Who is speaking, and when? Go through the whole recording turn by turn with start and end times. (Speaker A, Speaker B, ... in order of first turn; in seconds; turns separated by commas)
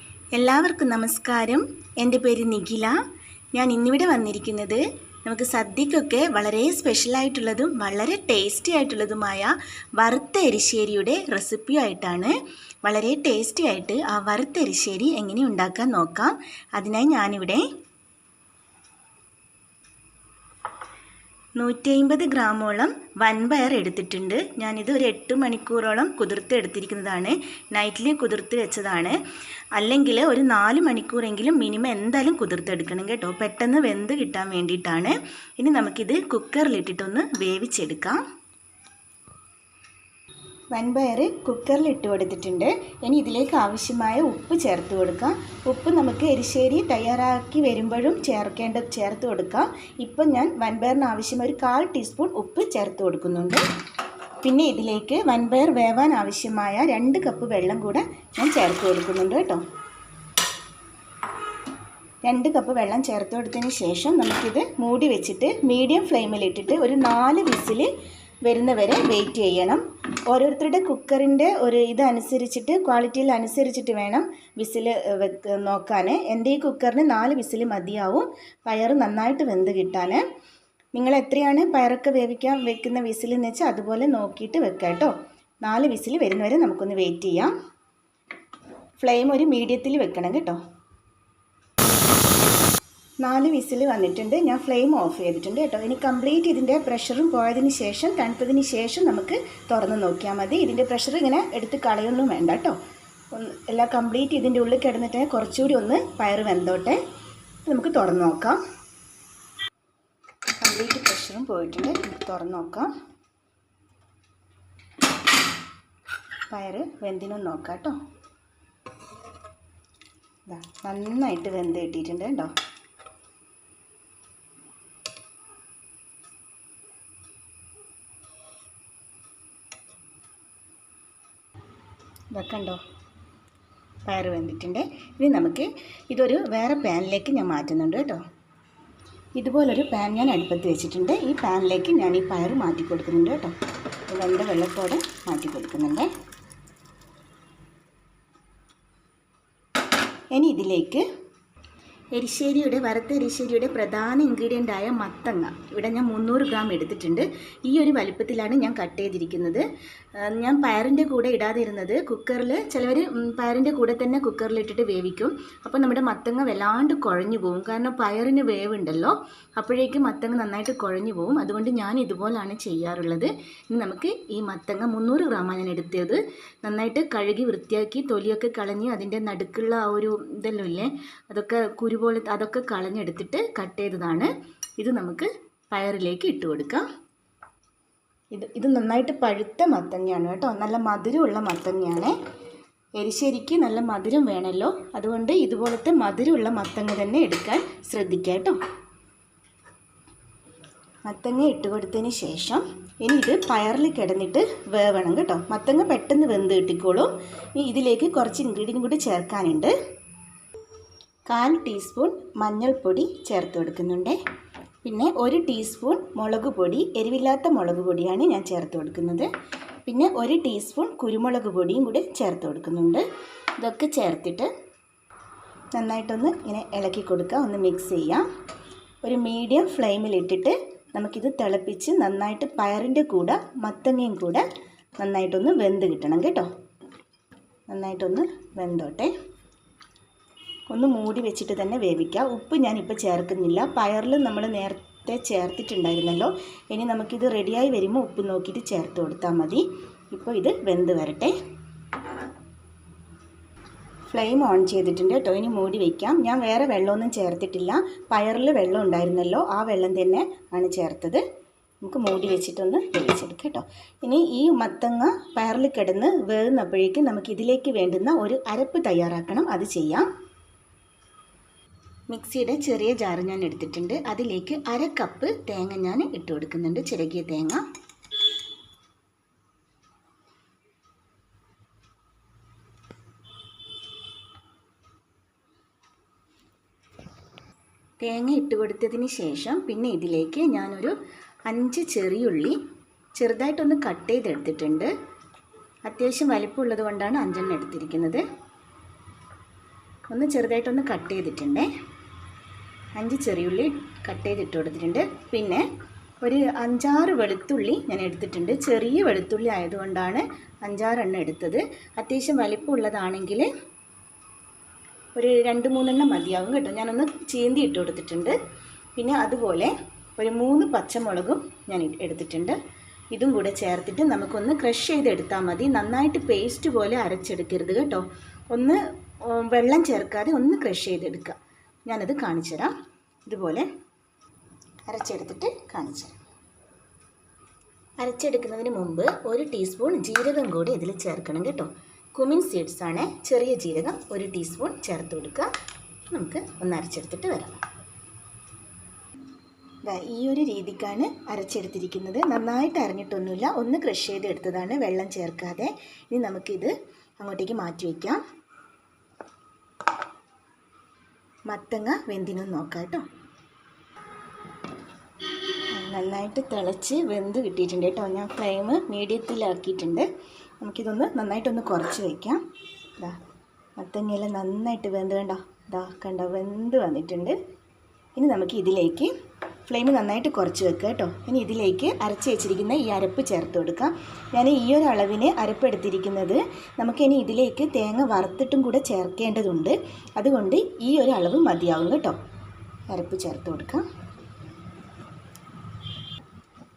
Speaker A: 0.3-3.0, Speaker A: 3.5-17.6, Speaker A: 21.6-29.1, Speaker A: 29.7-38.2, Speaker A: 40.7-53.6, Speaker A: 54.4-59.6, Speaker A: 62.2-67.9, Speaker A: 68.4-80.2, Speaker A: 80.9-87.5, Speaker A: 89.0-90.6, Speaker A: 93.2-102.8, Speaker A: 103.3-107.0, Speaker A: 107.7-108.6, Speaker A: 110.6-112.9, Speaker A: 116.5-118.0, Speaker A: 120.5-122.5, Speaker A: 132.3-132.8, Speaker A: 134.1-138.2, Speaker A: 139.4-143.5, Speaker A: 144.1-146.1, Speaker A: 150.3-151.0, Speaker A: 152.1-159.6, Speaker A: 160.2-186.8, Speaker A: 188.3-192.1, Speaker A: 193.0-198.6, Speaker A: 201.1-209.7, Speaker A: 211.3-214.2, Speaker A: 214.8-219.3, Speaker A: 219.8-223.0, Speaker A: 223.6-224.5, Speaker A: 225.7-228.2, Speaker A: 229.0-234.4, Speaker A: 235.0-236.5, Speaker A: 237.7-239.1, Speaker A: 240.7-251.3, Speaker A: 254.1-261.2, Speaker A: 261.8-270.1, Speaker A: 272.1-277.6, Speaker A: 288.0-290.9, Speaker A: 291.5-292.6, Speaker A: 293.1-294.9, Speaker A: 295.9-298.2, Speaker A: 300.1-301.7, Speaker A: 302.9-305.6, Speaker A: 306.2-313.5, Speaker A: 315.1-318.4, Speaker A: 319.0-322.6, Speaker A: 323.1-332.7, Speaker A: 333.2-333.6, Speaker A: 334.9-336.2, Speaker A: 338.0-345.5, Speaker A: 346.1-347.6, Speaker A: 349.8-358.2, Speaker A: 361.5-363.1, Speaker A: 365.7-370.1, Speaker A: 370.6-372.4, Speaker A: 373.8-377.4, Speaker A: 378.1-379.1, Speaker A: 379.7-392.2, Speaker A: 392.9-393.9